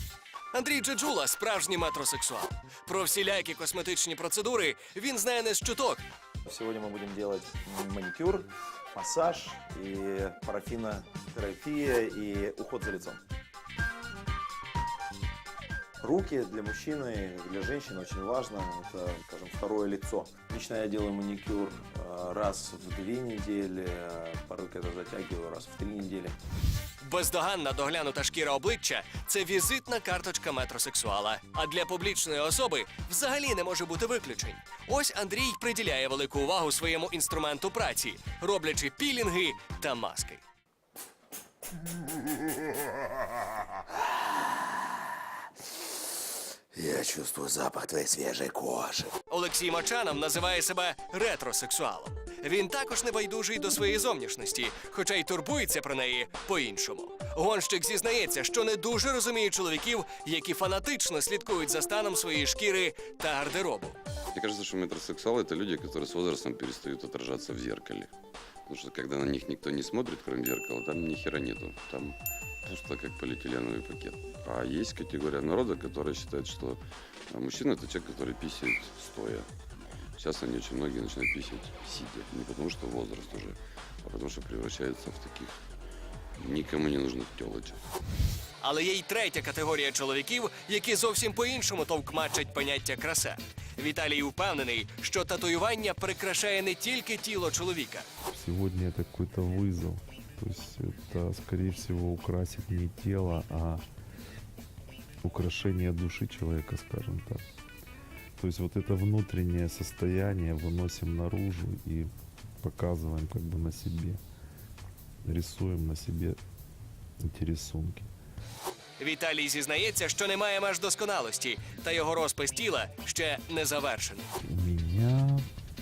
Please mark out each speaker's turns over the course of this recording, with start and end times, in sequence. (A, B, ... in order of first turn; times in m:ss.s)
0:00.5-0:06.0 A
0:06.5-0:13.2 B
0:16.0-0:26.4 B
0:27.0-0:40.4 A
0:46.7-0:49.1 C
0:49.3-1:04.0 A
1:04.3-1:08.1 D
1:08.7-1:19.5 D
1:20.2-1:25.6 D
1:26.4-1:27.8 D
1:28.6-1:38.1 A
1:38.3-1:43.8 E
1:45.2-1:47.4 E
1:48.4-1:52.1 E
1:52.6-1:54.2 E
1:55.2-1:56.4 E
1:57.2-1:58.1 E
1:59.0-2:04.3 A
2:04.5-2:05.5 E